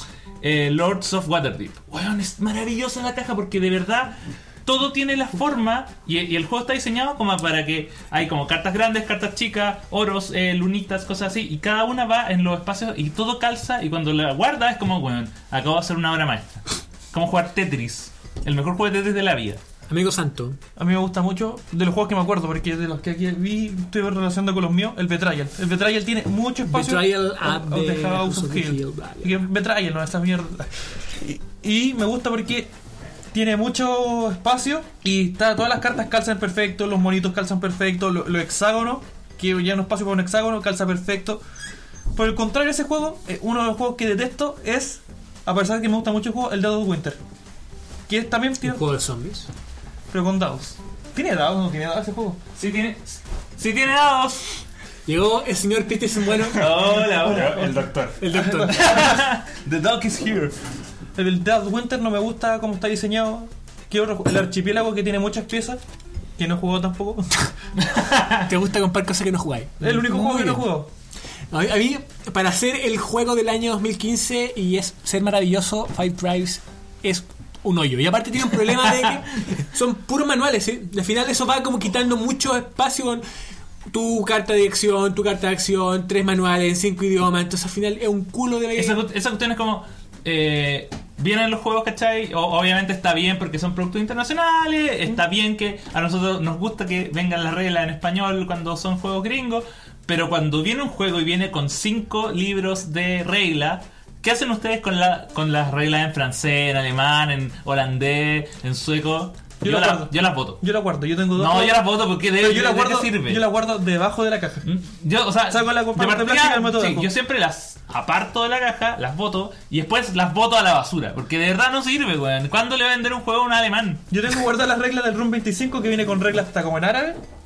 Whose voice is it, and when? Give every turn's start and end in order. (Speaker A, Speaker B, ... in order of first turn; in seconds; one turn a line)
Speaker A: 0.4-19.6
Speaker B: 19.9-20.6
Speaker C: 20.8-32.7
Speaker B: 26.7-29.4
Speaker C: 33.3-41.4
Speaker C: 42.1-47.2
Speaker C: 48.1-48.8
Speaker B: 48.6-49.5
Speaker C: 50.1-52.4
Speaker A: 52.5-54.6
Speaker B: 55.1-56.9
Speaker A: 56.5-57.6
Speaker D: 56.6-58.5
Speaker C: 57.3-57.8
Speaker B: 58.2-58.9
Speaker C: 58.3-59.2
Speaker A: 58.7-60.5
Speaker C: 61.1-65.8
Speaker C: 66.4-67.3
Speaker A: 67.8-68.4
Speaker B: 68.4-70.7
Speaker C: 69.8-70.9
Speaker B: 71.5-83.2
Speaker B: 83.9-89.0
Speaker A: 88.8-110.6
Speaker C: 109.6-114.7
Speaker A: 111.3-113.5
Speaker A: 114.6-124.0
Speaker C: 115.5-117.1
Speaker C: 124.1-127.2